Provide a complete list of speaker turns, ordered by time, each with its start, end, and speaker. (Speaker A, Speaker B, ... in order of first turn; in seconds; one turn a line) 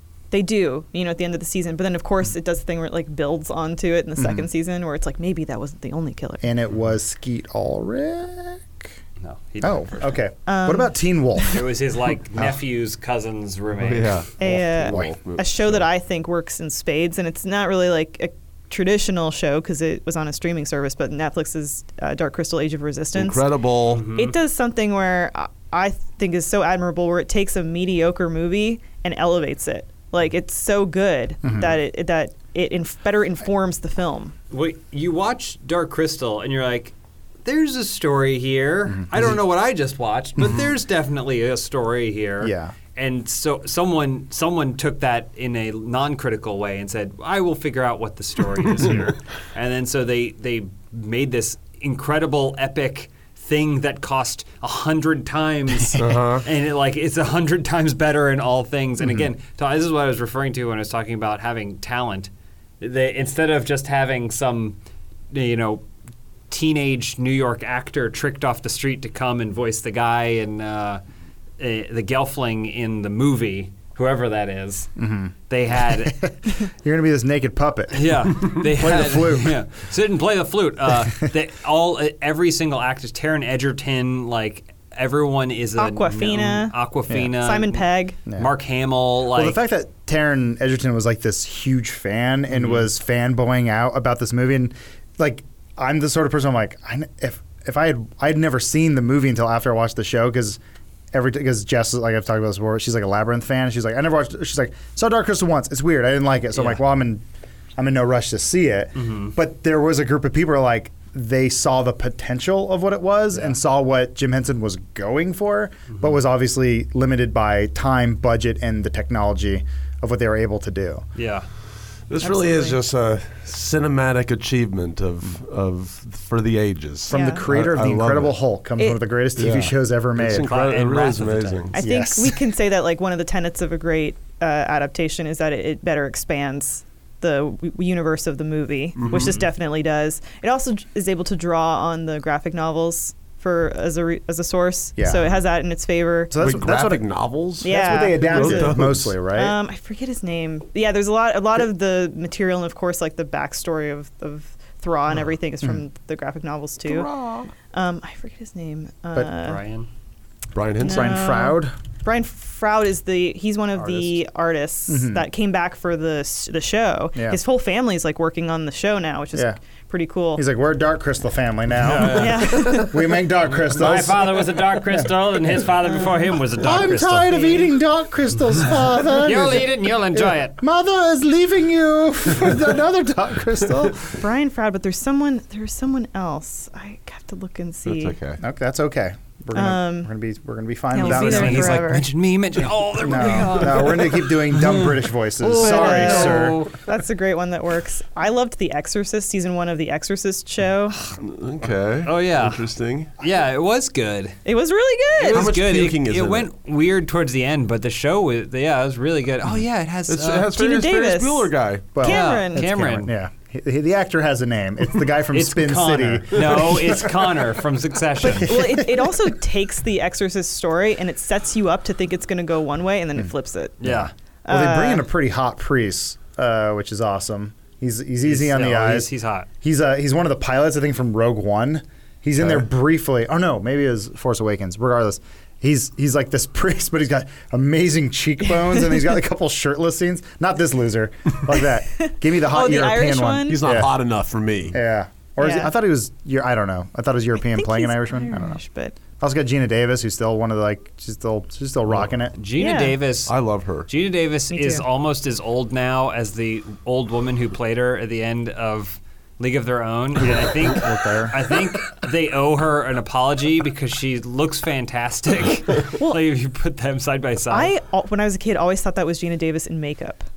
Speaker A: 0.3-6.5
Speaker B: 4.2-4.5
Speaker B: 6.4-8.9
Speaker C: 9.2-10.2
Speaker B: 9.6-11.6
Speaker A: 10.4-11.6
Speaker C: 11.5-14.2
Speaker D: 13.8-15.9
Speaker A: 14.4-23.5
Speaker D: 23.1-24.1
Speaker C: 23.9-24.3
Speaker A: 24.1-34.3
Speaker B: 31.4-31.7
Speaker C: 34.5-36.9
Speaker C: 37.4-64.8
Speaker B: 39.0-39.3
Speaker B: 42.4-42.7
Speaker D: 56.0-56.4
Speaker B: 59.0-59.3
Speaker C: 65.3-65.8
Speaker C: 66.5-71.0
Speaker C: 71.6-75.0
Speaker B: 75.0-79.6
Speaker C: 75.5-76.3
Speaker C: 77.9-89.6
Speaker A: 85.8-86.7
Speaker B: 87.1-87.3
Speaker A: 87.3-88.2
Speaker B: 89.3-100.6
Speaker C: 92.5-92.9
Speaker B: 101.1-107.2
Speaker C: 106.5-106.8
Speaker B: 107.8-121.0
Speaker C: 109.0-109.3
Speaker C: 121.2-121.5
Speaker D: 122.1-128.3
Speaker A: 122.2-122.8
Speaker B: 127.1-130.5
Speaker A: 127.1-127.5
Speaker D: 129.3-131.8
Speaker C: 130.3-131.7
Speaker A: 131.7-146.3
Speaker B: 131.8-132.4
Speaker D: 138.9-139.4
Speaker C: 139.1-139.4
Speaker B: 145.0-145.3
Speaker B: 146.3-147.1
Speaker D: 146.4-149.1
Speaker A: 147.6-157.1
Speaker B: 147.7-149.6
Speaker D: 156.8-157.5
Speaker A: 157.6-159.6
Speaker C: 159.4-159.9
Speaker D: 160.5-161.2
Speaker A: 160.8-170.4
Speaker B: 160.8-161.7
Speaker C: 163.8-164.2
Speaker B: 164.9-165.2
Speaker B: 170.3-175.6
Speaker C: 171.8-172.8
Speaker A: 172.1-173.0
Speaker C: 173.6-177.7
Speaker B: 176.6-184.1
Speaker C: 179.1-180.6
Speaker A: 184.2-188.2
Speaker D: 187.8-188.4
Speaker B: 188.4-191.9
Speaker A: 189.5-190.1
Speaker A: 190.9-192.1
Speaker C: 191.0-196.7
Speaker B: 193.0-196.6
Speaker A: 195.5-201.0
Speaker D: 201.2-203.1
Speaker C: 202.0-204.4
Speaker A: 204.4-205.5
Speaker D: 205.2-206.5
Speaker C: 205.2-210.6
Speaker D: 210.1-211.9
Speaker A: 210.5-212.7
Speaker B: 211.9-217.2
Speaker C: 212.0-213.1
Speaker C: 215.3-218.7
Speaker B: 218.2-219.3
Speaker A: 218.3-223.8
Speaker C: 223.8-224.1
Speaker B: 223.8-229.1
Speaker A: 224.4-225.1
Speaker C: 228.2-229.5
Speaker B: 229.6-243.9
Speaker A: 241.9-243.6
Speaker D: 243.5-244.8
Speaker B: 244.7-248.6
Speaker A: 245.4-245.7
Speaker A: 247.4-249.0
Speaker B: 249.2-252.3
Speaker C: 252.3-253.3
Speaker A: 252.6-252.9
Speaker D: 253.3-253.9
Speaker C: 253.8-267.7
Speaker A: 254.5-254.8
Speaker B: 260.2-261.6
Speaker A: 265.9-266.2
Speaker A: 267.5-270.2